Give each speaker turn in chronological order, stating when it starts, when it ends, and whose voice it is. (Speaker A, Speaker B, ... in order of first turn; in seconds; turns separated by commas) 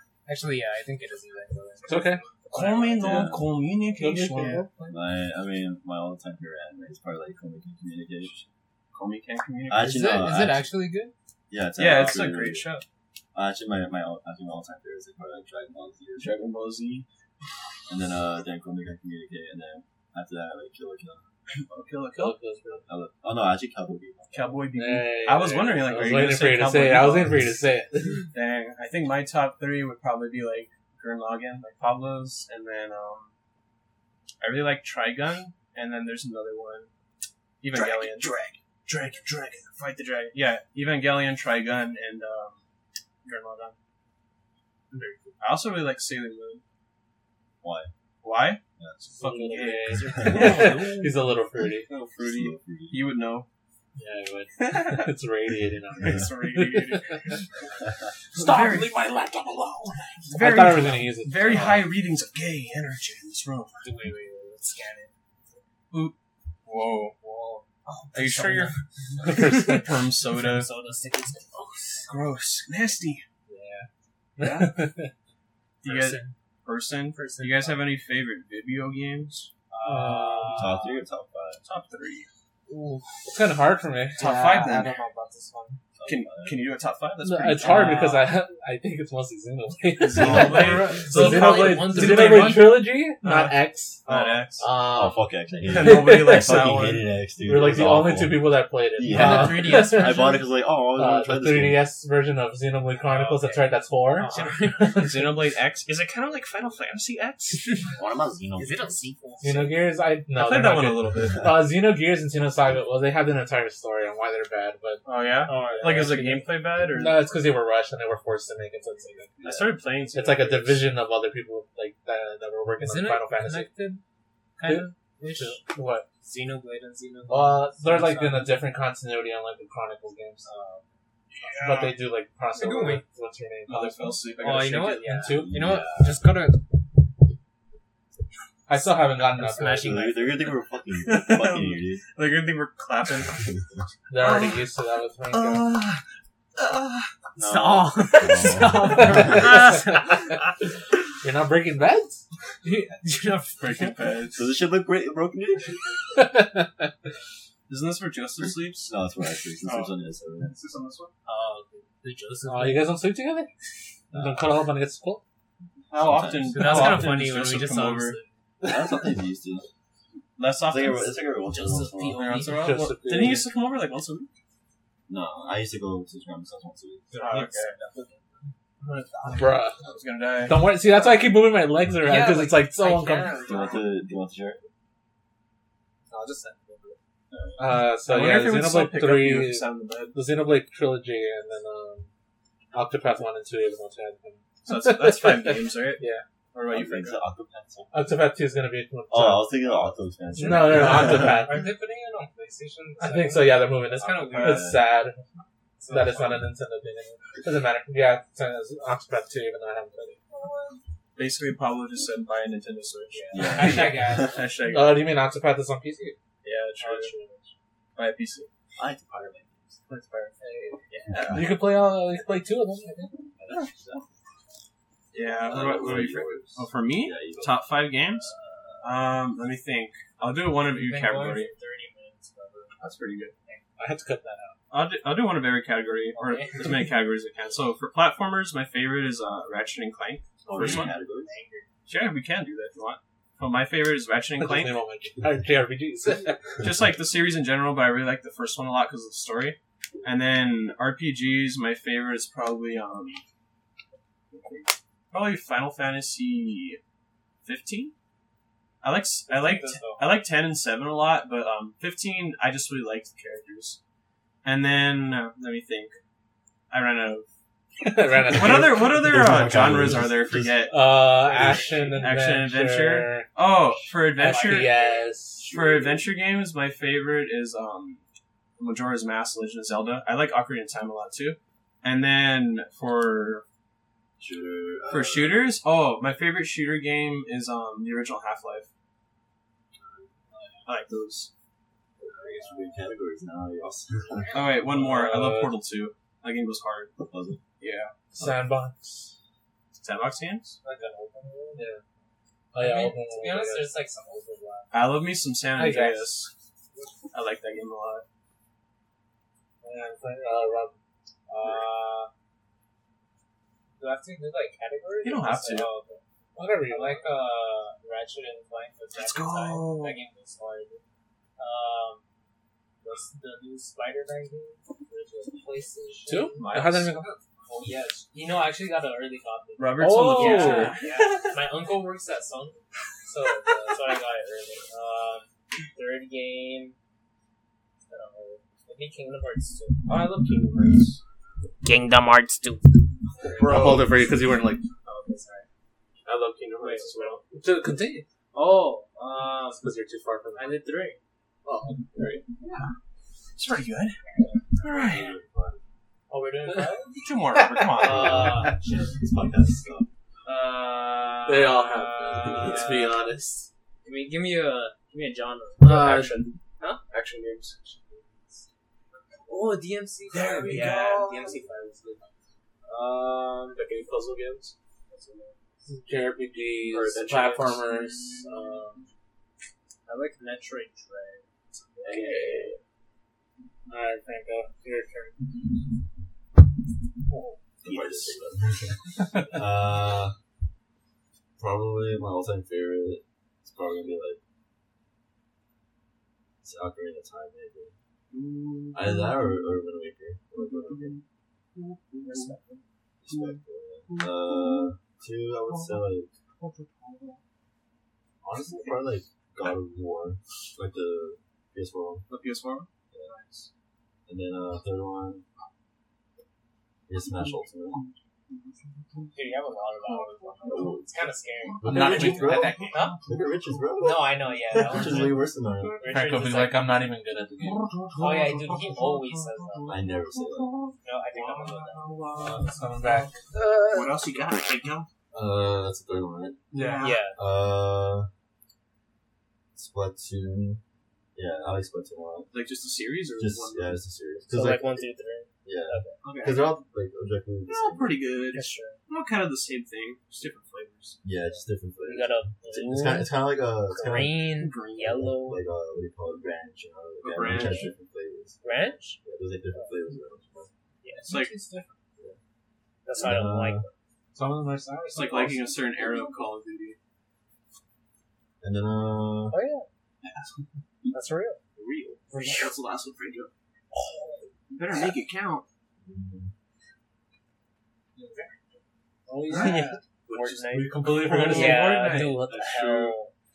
Speaker A: 0.3-3.0, Speaker B: 1.9-2.2, Speaker C: 2.5-4.7, Speaker D: 2.9-3.6, Speaker B: 4.0-4.7, Speaker D: 4.9-8.5, Speaker C: 8.9-9.9, Speaker D: 9.7-10.7, Speaker A: 9.8-11.1, Speaker D: 11.5-12.7, Speaker C: 11.8-12.8, Speaker D: 13.3-16.4, Speaker C: 16.2-17.1, Speaker D: 17.9-21.2, Speaker C: 21.7-22.4, Speaker B: 22.2-22.9, Speaker D: 22.9-24.6, Speaker C: 24.3-27.4, Speaker B: 24.8-28.3, Speaker C: 28.3-33.3, Speaker C: 34.4-36.9, Speaker C: 37.6-42.6, Speaker D: 37.7-38.5, Speaker C: 43.2-43.8, Speaker A: 44.9-45.4, Speaker C: 45.4-46.6, Speaker D: 47.6-47.9, Speaker C: 48.2-50.9, Speaker D: 48.8-49.0, Speaker B: 49.2-51.9, Speaker A: 49.7-51.2, Speaker D: 50.1-50.7, Speaker C: 51.9-53.5, Speaker D: 52.2-53.0, Speaker B: 54.0-57.4, Speaker C: 54.6-55.1, Speaker C: 56.0-57.5, Speaker C: 58.3-59.0, Speaker B: 58.3-61.9, Speaker C: 60.3-63.8, Speaker A: 63.8-65.1, Speaker C: 66.7-67.2, Speaker A: 67.2-72.1, Speaker C: 68.1-68.8, Speaker B: 69.2-69.9, Speaker C: 69.4-70.7, Speaker C: 72.1-73.2, Speaker A: 73.5-73.8, Speaker B: 73.5-73.9, Speaker B: 74.4-75.1, Speaker C: 74.4-74.7, Speaker C: 75.8-79.5, Speaker A: 75.8-76.3, Speaker A: 77.1-77.8, Speaker A: 79.7-81.0, Speaker B: 79.8-80.8, Speaker D: 80.5-81.6, Speaker C: 81.7-82.3, Speaker A: 82.7-83.3, Speaker B: 83.3-84.9, Speaker C: 84.2-85.0, Speaker A: 84.2-85.8, Speaker D: 86.0-86.6, Speaker C: 86.1-88.1, Speaker B: 87.2-96.8, Speaker A: 87.6-88.2, Speaker C: 90.0-94.6, Speaker D: 90.1-90.9, Speaker A: 91.0-92.8, Speaker D: 94.8-101.9, Speaker C: 95.7-97.0, Speaker B: 97.4-100.3, Speaker A: 99.0-100.5, Speaker B: 101.0-105.3, Speaker C: 103.1-103.5, Speaker A: 104.2-105.1, Speaker C: 105.0-107.7, Speaker D: 108.0-109.1, Speaker A: 108.6-109.8, Speaker B: 109.4-115.0, Speaker C: 110.3-111.5, Speaker C: 115.0-117.2, Speaker A: 115.5-116.5, Speaker B: 115.6-116.2, Speaker B: 116.9-119.3, Speaker A: 118.9-119.3, Speaker D: 119.4-119.8, Speaker C: 119.4-120.9, Speaker B: 120.1-123.7, Speaker A: 122.8-124.0, Speaker A: 124.6-125.6, Speaker B: 124.7-126.1, Speaker A: 126.2-128.6, Speaker B: 127.3-130.5, Speaker A: 130.4-130.9, Speaker C: 131.3-132.0, Speaker B: 131.5-134.3, Speaker A: 132.6-133.0, Speaker C: 133.7-135.1, Speaker A: 134.4-136.6, Speaker B: 135.0-135.6, Speaker D: 135.3-136.2, Speaker B: 138.7-140.1, Speaker A: 139.3-140.5, Speaker D: 139.8-142.0, Speaker C: 141.0-143.4, Speaker B: 144.1-145.7, Speaker C: 144.2-144.7, Speaker C: 145.3-146.0, Speaker C: 146.6-147.1, Speaker D: 147.4-149.5, Speaker A: 147.4-150.6, Speaker B: 148.8-150.4, Speaker B: 151.2-152.2, Speaker A: 152.6-153.9, Speaker C: 153.6-154.4, Speaker D: 154.3-155.9, Speaker B: 156.1-156.9, Speaker C: 157.7-158.9, Speaker D: 158.7-160.6, Speaker C: 159.6-159.9, Speaker C: 160.5-161.1, Speaker A: 161.3-162.9, Speaker B: 162.5-163.5, Speaker D: 164.1-164.6, Speaker B: 164.1-165.2, Speaker D: 165.9-166.6, Speaker C: 165.9-168.2, Speaker A: 166.5-168.3, Speaker B: 166.6-167.2, Speaker B: 168.6-169.0, Speaker D: 168.6-169.7, Speaker C: 170.4-171.2, Speaker D: 170.6-172.3, Speaker A: 171.5-172.8, Speaker C: 172.2-174.3, Speaker B: 172.5-173.5, Speaker D: 175.1-177.1, Speaker B: 177.1-177.6, Speaker C: 177.1-178.0, Speaker A: 177.3-177.8, Speaker C: 178.8-180.7, Speaker B: 179.3-179.8, Speaker B: 180.5-183.4, Speaker A: 182.0-183.9, Speaker D: 183.4-184.6, Speaker A: 186.1-186.9, Speaker D: 187.3-187.6, Speaker B: 187.6-192.1, Speaker C: 188.0-190.2, Speaker B: 192.7-196.2, Speaker C: 194.7-196.0, Speaker C: 196.5-197.2, Speaker D: 196.7-197.9, Speaker B: 197.9-199.6, Speaker D: 199.1-201.5, Speaker B: 200.4-201.7, Speaker A: 200.8-204.7, Speaker B: 203.0-205.2, Speaker D: 204.4-204.8, Speaker A: 205.8-206.3, Speaker B: 205.9-210.2, Speaker C: 211.2-215.1, Speaker A: 213.1-214.3, Speaker D: 213.3-214.4, Speaker B: 213.5-216.2, Speaker C: 216.4-217.2, Speaker A: 216.8-217.5, Speaker C: 218.0-218.5, Speaker D: 218.8-219.8, Speaker C: 219.9-220.3, Speaker B: 220.4-220.8, Speaker C: 220.9-221.5, Speaker D: 221.0-221.6, Speaker B: 221.3-223.2, Speaker D: 223.4-224.1, Speaker C: 225.1-228.3, Speaker D: 225.4-227.6, Speaker A: 228.2-228.8, Speaker C: 228.8-231.5, Speaker A: 230.8-232.8, Speaker C: 232.8-233.3, Speaker B: 233.8-234.6, Speaker C: 234.7-240.9, Speaker A: 236.1-236.9, Speaker D: 240.4-241.3, Speaker A: 240.6-241.7, Speaker C: 241.9-244.8, Speaker B: 244.4-246.6, Speaker C: 246.6-253.2, Speaker C: 254.3-256.8, Speaker C: 257.4-257.9, Speaker C: 258.8-263.8, Speaker B: 259.3-260.1, Speaker C: 264.4-266.0, Speaker C: 266.7-267.3, Speaker B: 267.8-269.2, Speaker C: 268.2-274.8, Speaker D: 268.4-270.7, Speaker B: 270.7-273.3, Speaker A: 271.7-272.0, Speaker B: 274.2-275.5, Speaker A: 274.2-275.0, Speaker C: 275.4-278.0, Speaker D: 275.4-276.1, Speaker C: 278.6-283.4, Speaker D: 284.2-285.5, Speaker C: 284.9-288.7, Speaker D: 289.8-290.1, Speaker C: 290.7-291.3, Speaker D: 292.0-294.6, Speaker A: 292.3-292.8, Speaker A: 294.1-294.6, Speaker C: 294.3-296.9, Speaker B: 294.7-295.5, Speaker D: 297.0-297.4, Speaker C: 297.6-297.9, Speaker B: 298.1-299.1, Speaker C: 299.7-300.6, Speaker A: 300.6-301.6, Speaker B: 301.6-301.8, Speaker B: 302.5-303.7, Speaker A: 302.6-304.7, Speaker C: 304.7-306.3, Speaker B: 305.6-306.1, Speaker C: 307.1-308.1, Speaker B: 309.6-310.8, Speaker A: 311.3-312.1, Speaker A: 313.8-316.0, Speaker C: 315.0-315.7, Speaker B: 316.4-317.1, Speaker A: 316.7-320.8, Speaker C: 318.9-320.0, Speaker A: 321.4-322.0, Speaker A: 322.8-326.6, Speaker B: 326.1-327.2, Speaker C: 326.4-328.0, Speaker A: 327.6-336.8, Speaker C: 329.6-331.4, Speaker B: 329.8-330.8, Speaker A: 337.9-340.1, Speaker C: 339.9-341.0, Speaker A: 341.6-343.8, Speaker C: 343.2-343.9, Speaker B: 343.3-344.6, Speaker A: 344.9-345.5, Speaker C: 346.1-347.2, Speaker A: 346.6-347.2, Speaker B: 347.3-348.1, Speaker A: 348.3-349.7, Speaker B: 349.6-350.6, Speaker A: 350.4-351.0, Speaker B: 351.4-352.2, Speaker C: 352.4-352.7, Speaker C: 353.4-354.0, Speaker C: 354.6-355.1, Speaker D: 354.7-355.6, Speaker A: 356.1-357.0, Speaker C: 356.9-358.4, Speaker B: 357.4-358.0, Speaker D: 357.8-359.9, Speaker A: 357.8-359.0, Speaker A: 360.2-362.9, Speaker B: 361.3-363.5, Speaker A: 363.8-366.1, Speaker B: 365.6-366.4, Speaker C: 365.7-366.4, Speaker C: 366.9-367.6, Speaker A: 369.3-372.0, Speaker C: 370.1-371.4, Speaker A: 372.7-373.6, Speaker C: 373.4-375.4, Speaker B: 375.7-378.5, Speaker C: 376.6-378.4, Speaker A: 378.3-378.9, Speaker A: 379.9-382.6, Speaker C: 381.8-382.6, Speaker B: 383.7-385.2, Speaker D: 387.6-390.1, Speaker C: 387.6-388.2, Speaker B: 389.0-389.4, Speaker D: 391.4-394.2, Speaker D: 396.4-397.7, Speaker C: 398.1-399.3, Speaker D: 398.7-400.9, Speaker C: 400.4-404.7, Speaker A: 402.1-402.5, Speaker D: 403.0-406.1, Speaker C: 405.5-405.8, Speaker C: 406.4-407.2, Speaker D: 408.2-412.1, Speaker C: 412.1-413.5, Speaker D: 414.1-415.2, Speaker D: 416.9-417.8, Speaker C: 417.0-419.2, Speaker A: 419.1-422.1, Speaker C: 419.9-420.8, Speaker D: 420.5-420.9, Speaker C: 421.4-423.3, Speaker D: 421.6-422.6, Speaker B: 421.7-422.9, Speaker A: 422.7-423.0, Speaker D: 423.1-425.8, Speaker A: 423.8-425.2, Speaker C: 424.6-425.9, Speaker A: 425.8-426.8, Speaker B: 425.9-427.6, Speaker C: 427.4-434.9, Speaker A: 427.9-429.8, Speaker D: 429.7-430.5, Speaker A: 430.8-432.5, Speaker B: 432.2-433.2, Speaker A: 433.3-434.4, Speaker D: 435.1-436.4, Speaker C: 436.5-437.0, Speaker B: 436.5-437.0, Speaker A: 436.8-437.2, Speaker D: 437.2-438.1, Speaker D: 439.6-440.6, Speaker D: 441.2-442.3, Speaker C: 442.3-443.8, Speaker D: 443.2-444.9, Speaker A: 444.3-446.0, Speaker D: 445.4-448.0, Speaker C: 446.0-446.5, Speaker C: 447.5-451.0, Speaker A: 448.3-448.8, Speaker D: 451.0-454.3, Speaker A: 451.3-453.1, Speaker A: 453.7-455.4, Speaker C: 454.4-454.9, Speaker D: 454.8-460.5, Speaker C: 457.0-457.7, Speaker A: 457.3-457.7, Speaker A: 458.4-459.0, Speaker A: 460.8-461.1, Speaker B: 460.9-461.8, Speaker C: 461.1-461.3, Speaker A: 462.9-463.7, Speaker D: 462.9-463.7, Speaker B: 464.1-465.9, Speaker C: 464.9-466.8, Speaker D: 468.4-469.4, Speaker A: 469.3-469.7, Speaker C: 470.0-470.9, Speaker A: 470.9-471.4, Speaker C: 471.6-473.3, Speaker D: 471.7-471.9, Speaker A: 472.1-472.5, Speaker A: 473.7-474.3, Speaker C: 474.5-475.4, Speaker D: 475.8-476.3, Speaker B: 479.1-479.8, Speaker C: 479.3-483.0, Speaker A: 479.4-483.1, Speaker B: 480.4-481.8